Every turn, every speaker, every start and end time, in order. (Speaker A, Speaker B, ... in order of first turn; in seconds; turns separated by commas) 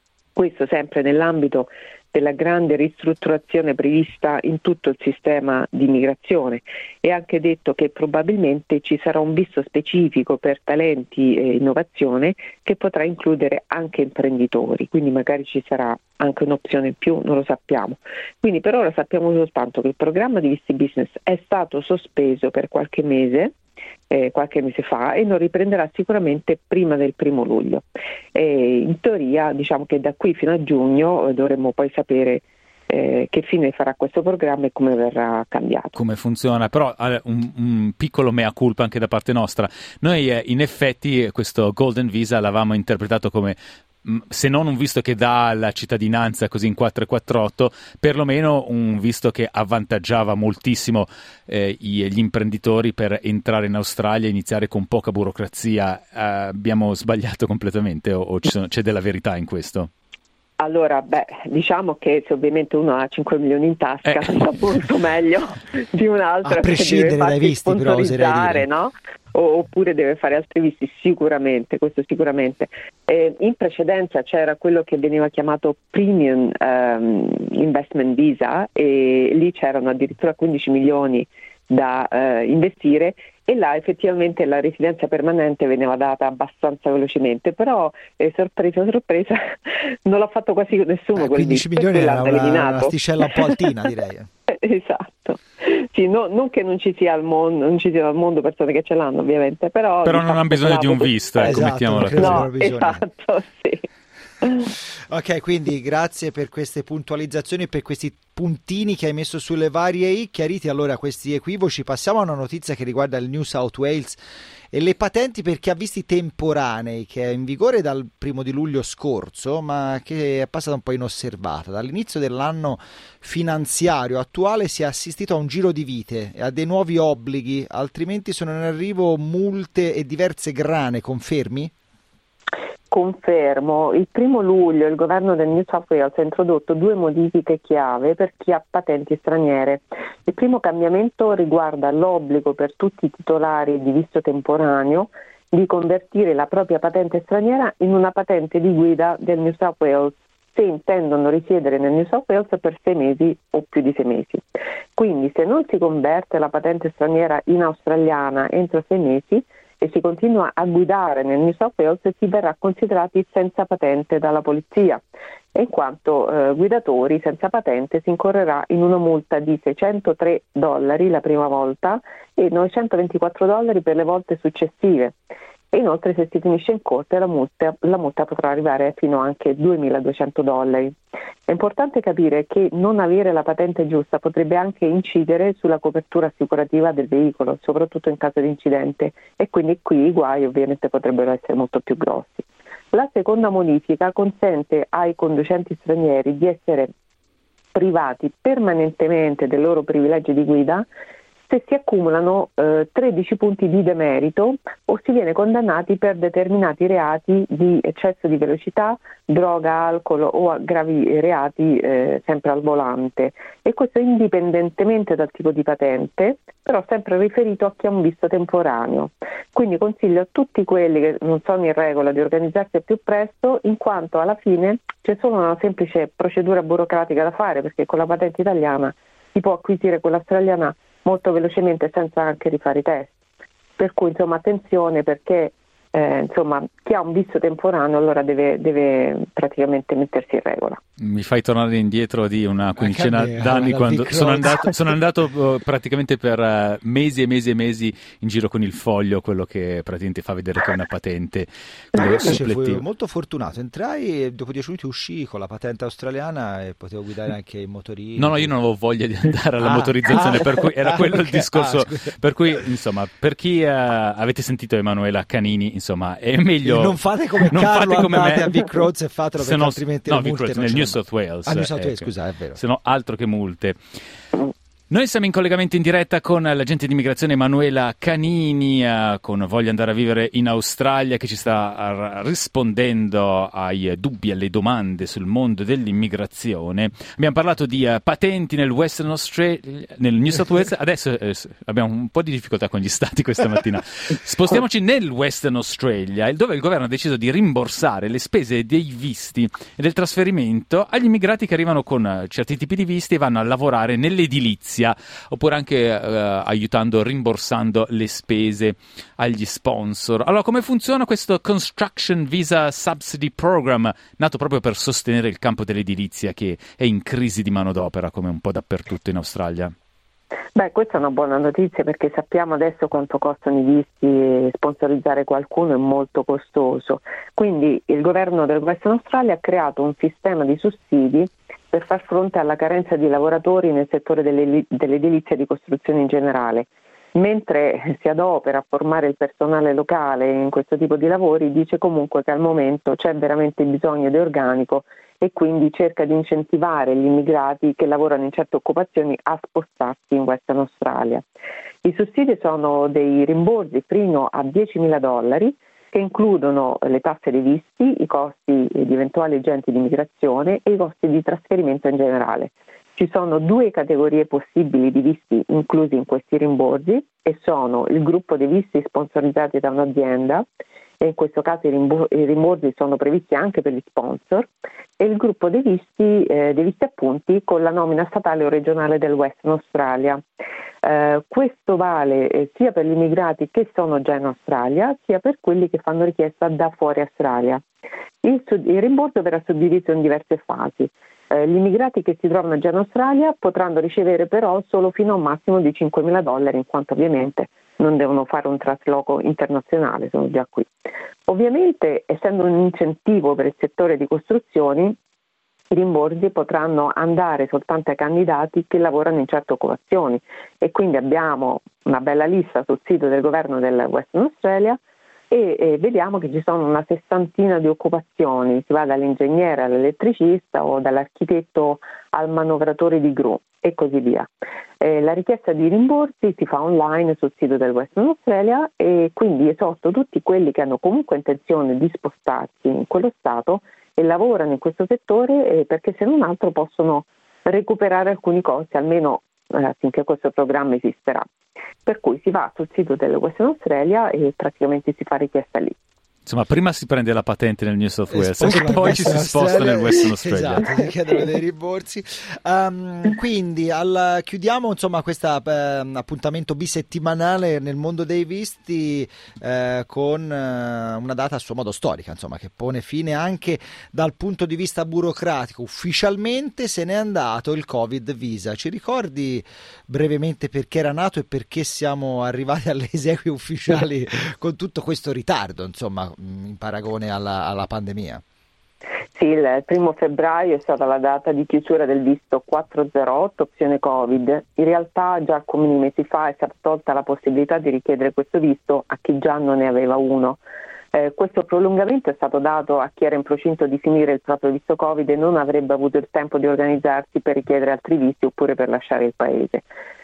Speaker A: 0.3-23.5, Speaker A: 24.1-35.9, Speaker B: 35.9-59.9, Speaker A: 60.6-93.7, Speaker B: 64.0-64.4, Speaker C: 66.4-68.7, Speaker C: 91.1-94.3, Speaker A: 94.5-101.6, Speaker B: 100.0-102.5, Speaker C: 101.4-103.0, Speaker A: 102.2-103.9, Speaker A: 104.4-104.7, Speaker C: 105.1-114.2, Speaker C: 114.7-131.7, Speaker A: 132.9-165.0, Speaker A: 165.5-175.1, Speaker A: 175.7-180.9, Speaker A: 181.5-196.9, Speaker A: 197.7-200.9, Speaker A: 201.5-233.1, Speaker A: 233.8-240.8, Speaker B: 241.0-252.8, Speaker C: 242.8-244.9, Speaker C: 252.0-258.5, Speaker B: 258.2-273.8, Speaker C: 259.6-262.1, Speaker C: 266.6-272.6, Speaker B: 274.9-319.7, Speaker A: 320.5-351.2, Speaker A: 351.8-370.4, Speaker A: 371.0-380.2, Speaker A: 380.8-387.6, Speaker A: 388.2-400.7, Speaker A: 401.3-405.0, Speaker A: 405.7-414.8, Speaker A: 415.3-424.3, Speaker A: 424.8-441.2, Speaker A: 441.8-445.8, Speaker B: 446.2-450.6, Speaker C: 448.1-478.2, Speaker A: 479.1-490.4, Speaker A: 490.9-499.6